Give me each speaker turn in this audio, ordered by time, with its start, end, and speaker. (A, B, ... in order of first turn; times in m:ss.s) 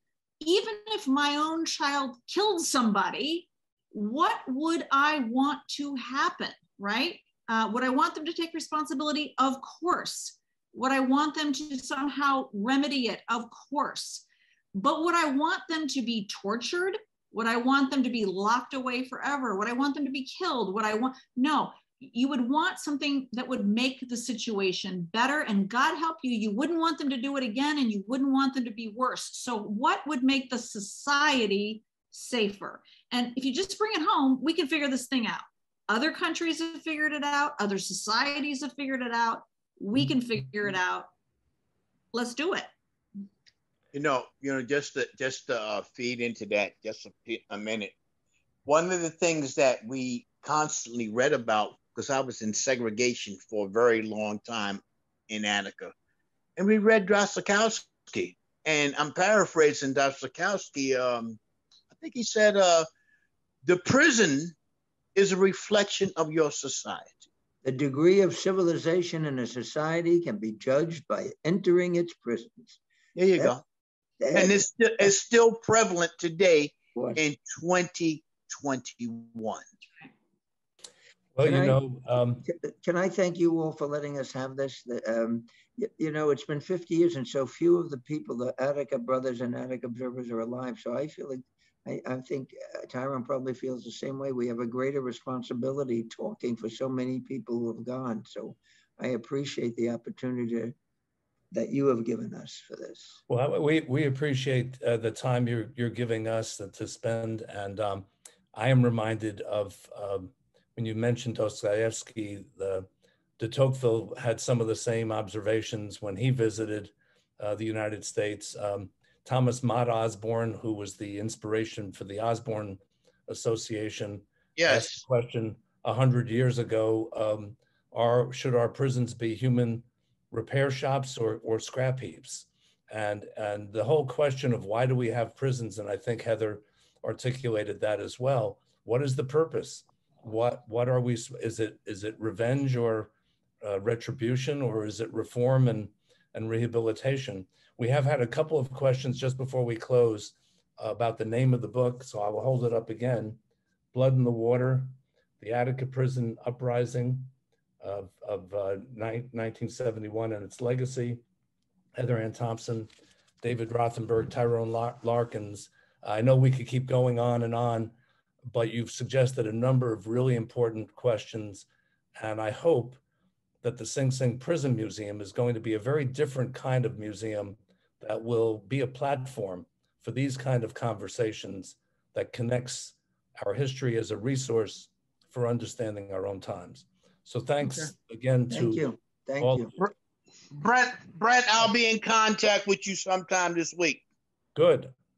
0:00.4-0:41.1 A
0:42.1-0:42.7 A
0:43.9-0:48.0 B
0:48.7-0:55.9 B
0:56.6-1:01.4 B
1:01.9-1:02.9 B
1:03.6-1:04.6 B
1:05.2-1:07.3 B
1:07.6-1:12.8 C
1:13.2-1:13.6 B
1:14.2-1:15.1 C
1:14.3-1:19.7 B
1:17.0-1:17.2 C
1:21.4-1:22.5 D
1:21.4-1:21.8 C
1:22.4-1:40.7 C
1:41.5-1:43.2 C
1:43.3-2:23.1 D
2:04.6-2:05.0 B
2:23.6-2:33.4 D
2:33.9-2:41.2 D
2:42.0-2:42.9 D
2:43.4-2:47.9 D
2:48.5-2:51.7 D
2:52.2-2:53.0 D
2:53.6-3:08.8 D
3:08.5-3:09.7 C
3:09.4-3:09.8 D
3:10.5-3:14.0 B
3:14.6-3:14.9 D